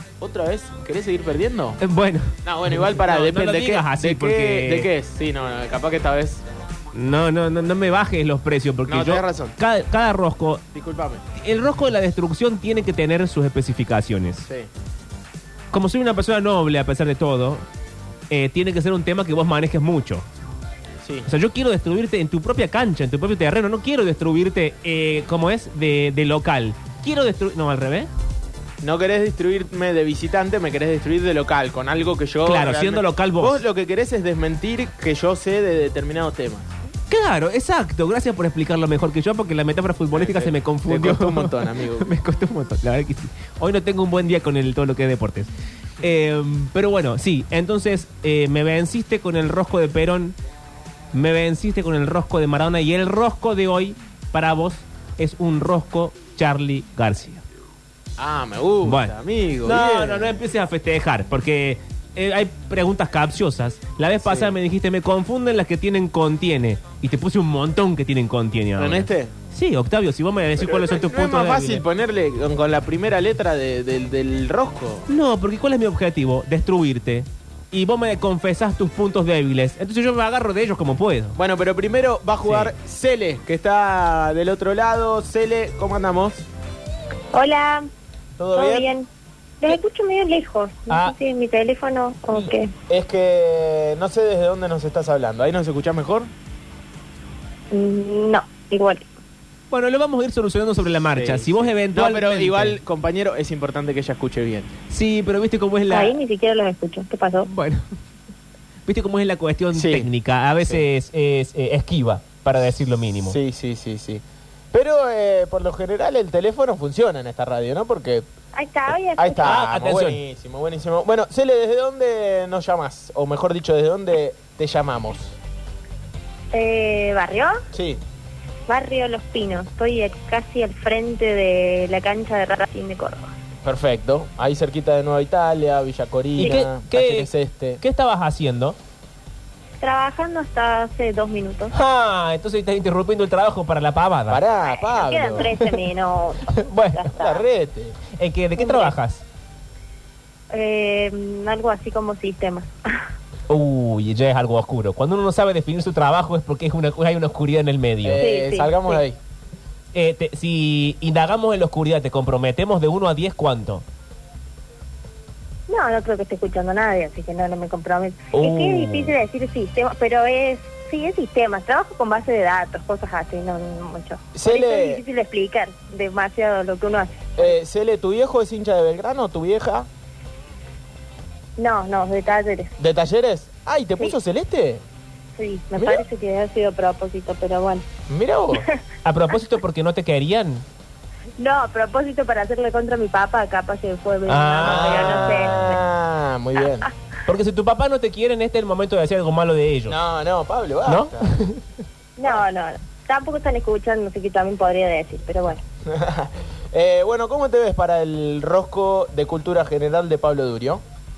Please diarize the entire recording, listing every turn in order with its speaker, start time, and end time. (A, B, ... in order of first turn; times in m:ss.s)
0:00.2-0:01.8 A
0:01.8-0:04.9 B
0:02.4-0:06.4 A
0:06.9-0:10.6 B
0:08.9-0:09.6 A
0:10.7-0:11.2 A
0:11.4-0:14.4 B
0:14.4-0:14.7 A
0:15.7-0:17.6 B
0:18.3-0:20.2 B
0:21.3-0:28.1 B
0:28.8-0:36.7 A
0:32.4-0:33.6 B
0:37.1-0:45.5 B
0:40.1-0:42.1 A
0:46.0-0:50.4 B
0:51.1-0:57.4 B
0:58.2-1:00.4 A
0:58.8-1:11.8 B
1:04.2-1:04.5 A
1:08.8-1:09.3 A
1:10.6-1:15.1 A
1:15.1-1:21.4 B
1:21.4-1:26.4 A
1:22.4-1:22.7 B
1:27.3-1:27.9 C
1:28.4-1:28.9 A
1:28.6-1:29.1 C
1:29.6-1:32.7 C
1:30.9-1:31.2 B
1:32.3-1:32.5 B
1:32.9-1:36.3 A
1:37.7-1:39.1 C
1:39.7-1:42.8 B
1:41.1-1:44.7 A
1:44.9-1:46.2 B
1:45.9-1:47.5 C
1:47.5-1:47.8 B
1:48.9-1:53.4 B
1:49.7-1:50.1 A
1:53.2-1:58.3 A
1:58.5-1:59.6 C
1:59.2-2:05.4 A
1:59.4-2:00.2 B
2:06.5-2:07.6 C
2:07.7-2:08.0 A
2:08.7-2:13.3 C
2:13.6-2:17.8 A
2:16.4-2:16.6 C
2:16.4-2:18.8 B
2:19.8-2:21.7 C
2:21.7-2:24.4 B
2:24.3-2:25.6 A
2:24.6-2:27.5 C
2:25.5-2:25.8 B
2:26.5-2:27.1 B
2:27.2-2:28.0 A
2:28.2-2:29.2 B
2:28.6-2:28.9 C
2:30.5-2:33.0 C
2:33.5-2:38.2 B
2:38.0-2:39.2 A
2:38.2-2:39.0 C
2:39.9-2:43.8 B
2:45.7-2:57.6 C
2:48.3-2:49.1 A
2:48.4-2:48.6 B
2:54.3-2:55.0 A
2:57.4-2:59.9 A
3:01.6-3:02.7 C
3:02.8-3:04.8 A
3:05.4-3:07.8 C
3:08.1-3:08.6 A
3:08.5-3:08.8 C
3:09.0-3:10.6 B
3:11.4-3:15.8 C
3:14.3-3:15.8 B
3:14.6-3:16.9 A
3:16.6-3:16.9 C
3:17.3-3:20.0 B
3:19.9-3:21.3 A
3:20.9-3:21.6 B
3:22.2-3:25.6 C
3:25.9-3:30.8 A